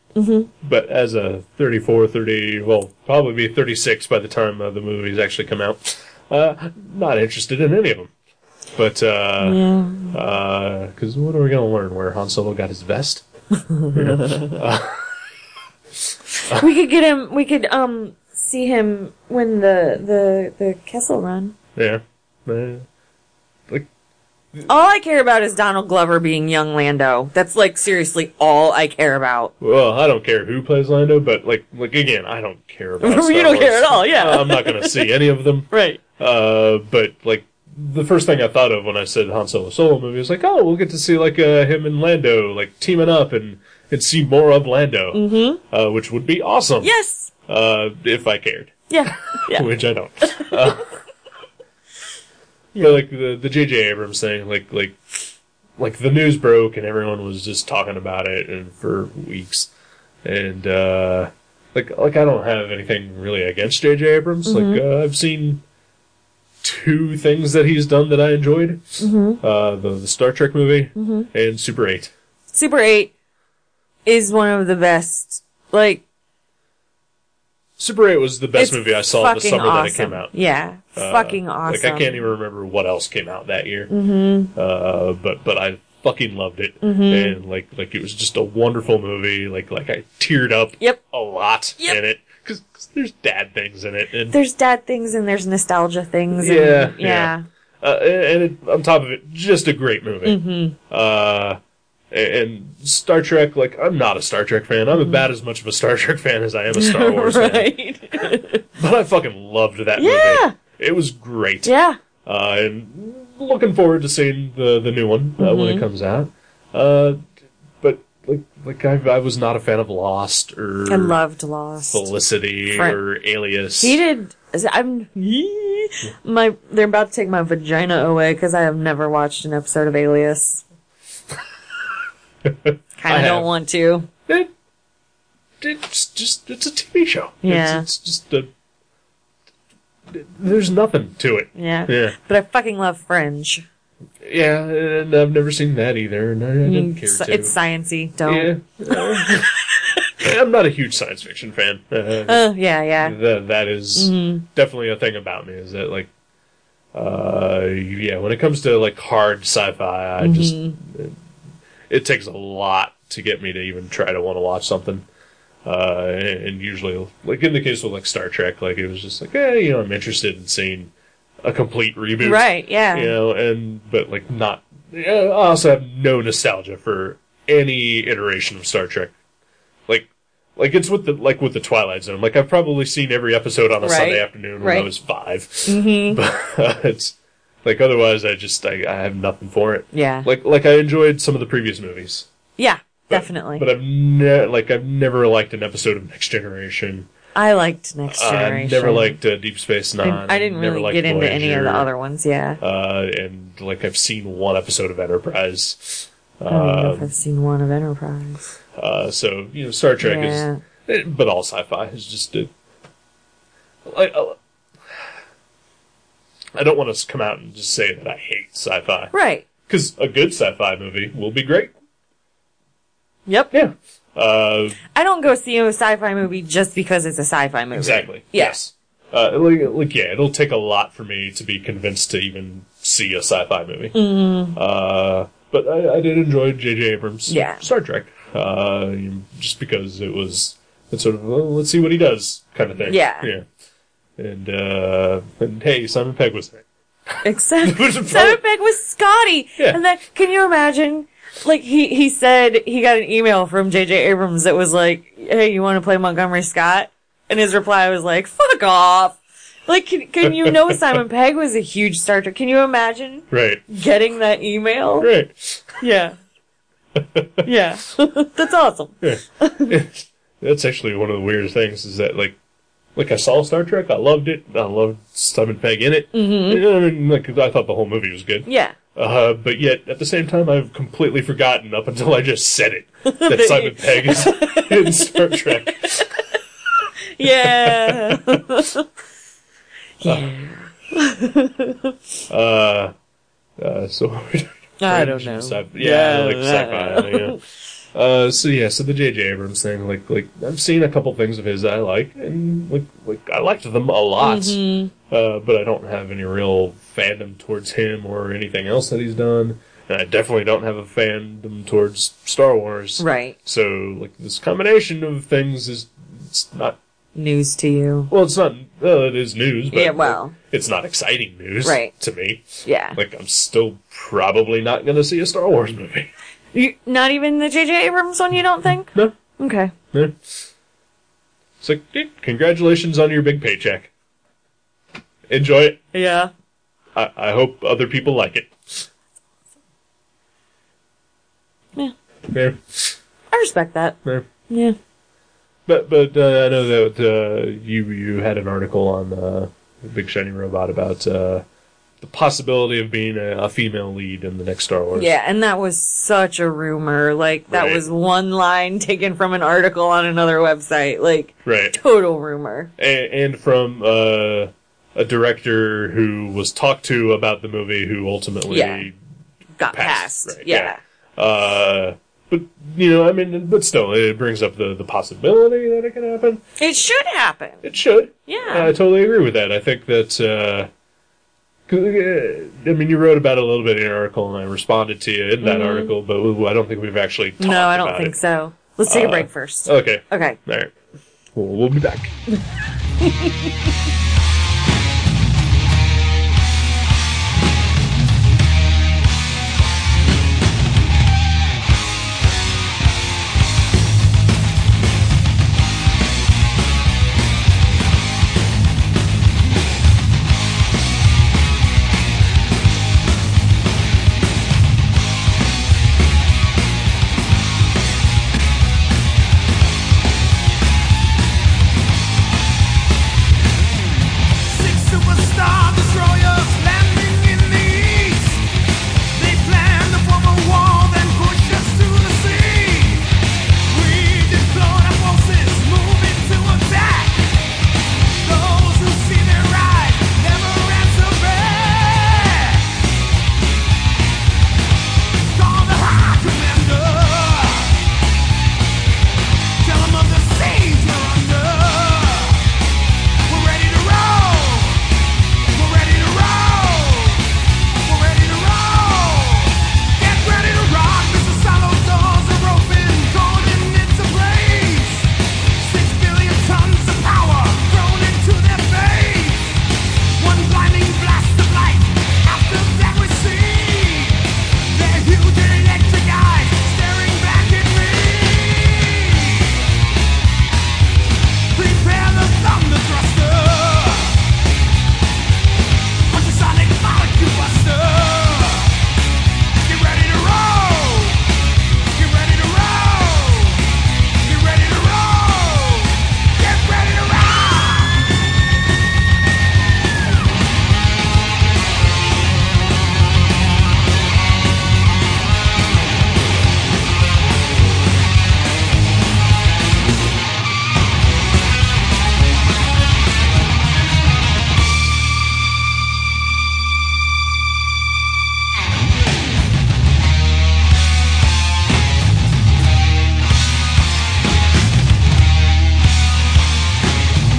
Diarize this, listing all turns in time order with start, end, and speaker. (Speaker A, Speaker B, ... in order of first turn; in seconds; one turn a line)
Speaker A: 0.1-0.5
Speaker B: 0.6-8.1
Speaker B: 8.7-9.6
Speaker A: 9.4-10.2
Speaker B: 10.1-13.2
Speaker B: 13.9-15.0
Speaker A: 16.5-21.6
Speaker B: 21.8-22.9
Speaker A: 24.7-29.5
Speaker B: 29.6-46.9
Speaker A: 33.0-35.1
Speaker A: 35.7-36.0
Speaker A: 45.1-45.6
Speaker A: 46.8-47.3
Speaker B: 47.5-50.9
Speaker A: 48.9-49.7
Speaker A: 52.7-53.0
Speaker B: 52.8-55.0
Speaker B: 55.8-59.7
Speaker B: 60.2-65.6
Speaker A: 64.5-64.8
Speaker B: 66.6-72.1
Speaker A: 69.0-69.4
Speaker A: 71.0-71.3
Speaker A: 72.5-73.1
Speaker A: 74.0-76.0
Speaker B: 77.8-80.3
Speaker A: 78.5-82.2
Speaker B: 81.0-83.9
Speaker A: 83.9-84.5
Speaker B: 84.5-94.4
Speaker A: 86.8-87.4
Speaker A: 94.3-97.5
Speaker B: 96.3-101.6
Speaker A: 100.2-100.8
Speaker B: 102.1-107.7
Speaker A: 105.0-105.2
Speaker A: 106.7-108.6
Speaker B: 108.8-111.7
Speaker A: 110.0-110.5
Speaker A: 111.6-112.0
Speaker B: 112.2-117.2
Speaker A: 115.4-115.8
Speaker B: 117.8-121.2
Speaker A: 120.9-122.1
Speaker B: 121.9-124.0
Speaker A: 122.7-123.0
Speaker A: 123.8-130.6
Speaker B: 132.4-133.5
Speaker A: 133.0-134.1
Speaker B: 135.6-138.5
Speaker A: 137.4-137.8
Speaker B: 140.1-142.2
Speaker A: 141.5-143.6
Speaker B: 144.2-147.6
Speaker A: 146.6-149.4
Speaker B: 148.2-152.4
Speaker A: 152.3-153.2
Speaker B: 153.0-156.1
Speaker A: 153.9-154.4
Speaker B: 156.9-161.2
Speaker A: 160.2-160.8
Speaker B: 161.9-165.1
Speaker B: 165.6-170.9
Speaker B: 171.4-179.1
Speaker A: 172.2-173.1
Speaker B: 179.9-192.3
Speaker A: 183.8-184.9
Speaker A: 185.7-186.2
Speaker A: 189.9-190.3
Speaker A: 192.6-193.7
Speaker B: 193.1-197.1
Speaker A: 197.3-199.2
Speaker B: 198.1-201.9
Speaker A: 200.0-202.6
Speaker B: 202.6-207.1
Speaker A: 206.5-208.4
Speaker B: 208.8-212.5
Speaker A: 210.0-210.6
Speaker B: 213.8-214.4
Speaker B: 216.6-219.1
Speaker A: 219.1-219.5
Speaker B: 219.6-221.7
Speaker A: 223.3-223.5
Speaker B: 223.5-224.8
Speaker A: 224.9-228.6
Speaker B: 227.7-234.0
Speaker A: 233.9-234.6
Speaker B: 234.5-243.4
Speaker A: 237.3-237.6
Speaker A: 242.8-243.3
Speaker B: 244.2-248.4
Speaker A: 247.2-265.1
Speaker B: 260.2-261.0
Speaker B: 263.3-263.6
Speaker B: 265.0-265.8
Speaker A: 265.8-266.2
Speaker B: 266.9-267.5
Speaker A: 267.4-269.7
Speaker B: 269.0-272.4
Speaker B: 272.9-286.1
Speaker A: 276.1-276.6
Speaker A: 278.4-278.8
Speaker A: 283.1-286.1
Speaker A: 287.1-288.9
Speaker B: 287.2-288.4
Speaker A: 290.0-291.9
Speaker B: 290.0-290.3
Speaker B: 292.3-292.9
Speaker B: 293.6-297.4
Speaker A: 294.8-297.4
Speaker B: 297.9-316.8
Speaker A: 304.2-304.9
Speaker A: 313.0-313.4
Speaker A: 317.1-318.1
Speaker B: 318.1-326.1
Speaker A: 319.7-320.4
Speaker A: 321.6-321.9
Speaker A: 322.6-323.0
Speaker A: 326.5-329.7
Speaker B: 329.9-330.2
Speaker B: 331.6-333.9
Speaker B: 335.3-335.8
Speaker A: 335.9-336.3
Speaker B: 336.9-338.9
Speaker B: 342.3-342.9
Speaker A: 343.3-344.0
Speaker A: 344.5-344.8
Speaker B: 345.7-351.4
Speaker B: 352.0-355.1
Speaker A: 354.9-362.7
Speaker B: 357.5-357.8
Speaker B: 361.4-361.8
Speaker B: 362.8-368.9
Speaker A: 368.5-368.9
Speaker A: 369.6-370.8
Speaker B: 369.7-376.4
Speaker A: 376.6-377.7
Speaker B: 377.6-380.7
Speaker A: 378.3-378.7
Speaker B: 381.7-388.2
Speaker A: 385.4-385.9
Speaker A: 387.4-390.4
Speaker B: 388.9-390.7
Speaker B: 391.3-392.1
Speaker A: 393.0-393.3
Speaker C: 424.4-428.4
Speaker C: 429.1-433.1
Speaker C: 433.7-437.2
Speaker C: 438.2-442.7
Speaker C: 445.3-447.8
Speaker C: 449.6-452.4
Speaker C: 453.3-454.8
Speaker C: 455.5-457.2
Speaker C: 457.8-465.1
Speaker C: 465.6-469.6
Speaker C: 470.2-479.6
Speaker C: 481.5-484.2
Speaker C: 486.1-488.7
Speaker C: 489.6-491.2
Speaker C: 491.9-493.6
Speaker C: 494.2-498.1